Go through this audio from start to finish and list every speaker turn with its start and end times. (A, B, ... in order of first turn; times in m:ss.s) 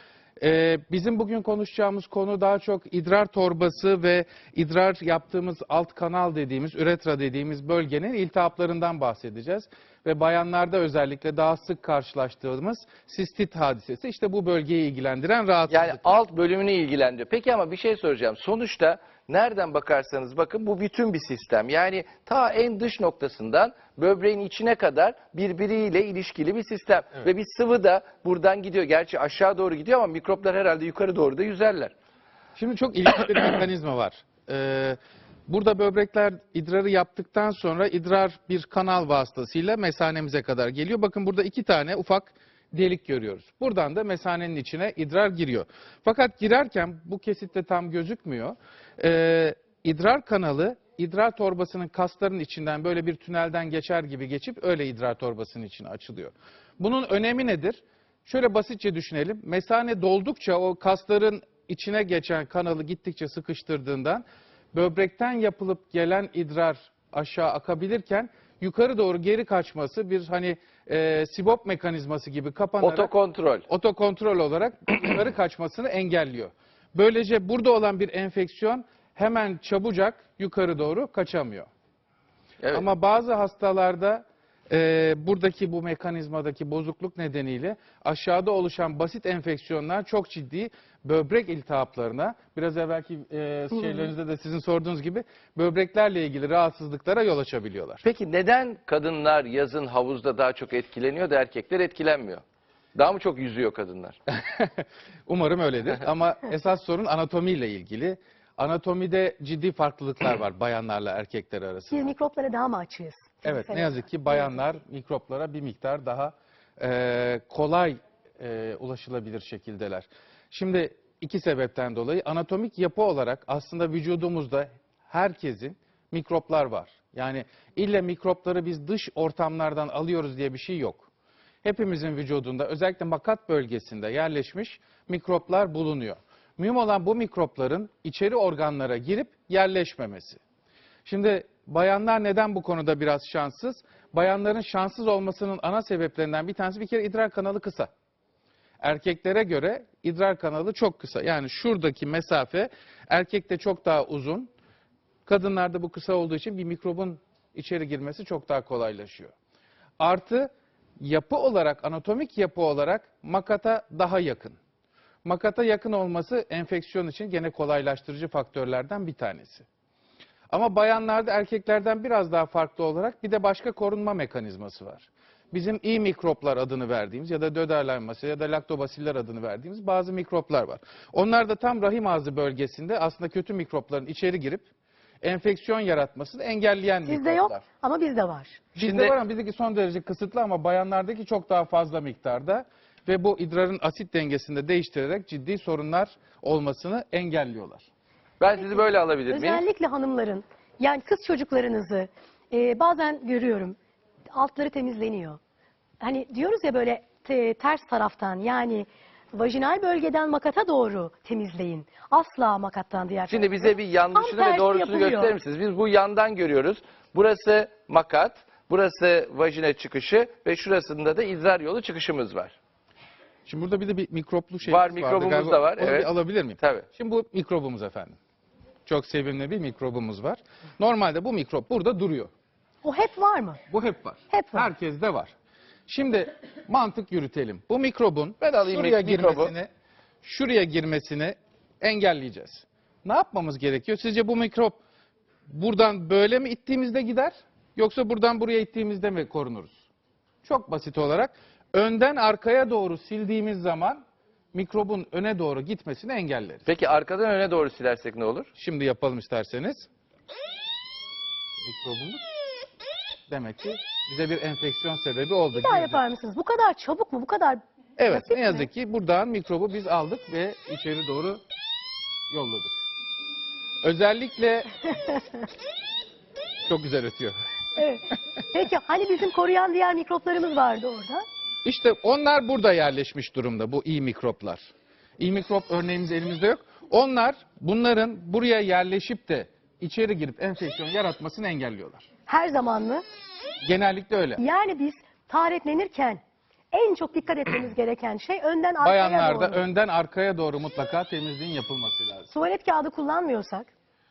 0:00.4-0:16.2 A
0:15.7-0:31.9 B
0:32.6-1:13.1 A
1:12.8-1:13.7 B
1:13.7-1:21.7 A
1:22.6-1:22.8 B
1:22.7-1:38.0 A
1:38.0-1:42.4 B
1:42.9-1:44.2 B
1:44.3-1:52.1 A
1:51.9-1:54.6 C
1:53.4-2:11.1 A
2:11.6-2:20.4 A
2:21.0-2:27.9 A
2:28.8-2:34.5 A
2:35.2-2:39.3 A
2:40.0-2:44.6 A
2:45.2-2:49.6 A
2:50.5-3:04.7 A
3:05.2-3:07.6 A
3:07.0-3:08.6 C
3:08.7-3:17.9 A
3:08.8-3:09.1 B
3:18.4-3:19.6 B
3:19.3-3:23.8 C
3:24.3-3:25.4 C
3:26.0-3:35.3 C
3:33.3-3:42.5 B
3:43.4-3:48.2 A
3:44.6-3:46.9 B
3:48.8-3:52.3 A
3:52.8-3:53.6 C
3:53.7-3:55.3 A
3:54.3-3:54.7 C
3:55.9-3:59.7 A
3:58.4-3:59.5 B
4:00.2-4:04.8 A
4:05.5-4:09.8 A
4:10.4-4:14.0 A
4:14.5-4:16.6 A
4:16.6-4:18.5 B
4:18.5-4:19.9 A
4:21.6-4:22.2 A
4:23.3-4:26.0 A
4:25.5-4:28.7 C
4:28.0-4:31.4 A
4:32.3-4:32.7 A
4:33.8-4:35.1 A
4:36.6-4:37.4 A
4:37.8-4:41.2 C
4:41.6-4:52.1 A
4:52.3-4:53.0 C
4:53.6-4:54.4 A
4:54.4-4:56.2 C
4:56.7-4:59.6 C
4:58.8-5:02.3 A
5:02.3-5:03.7 C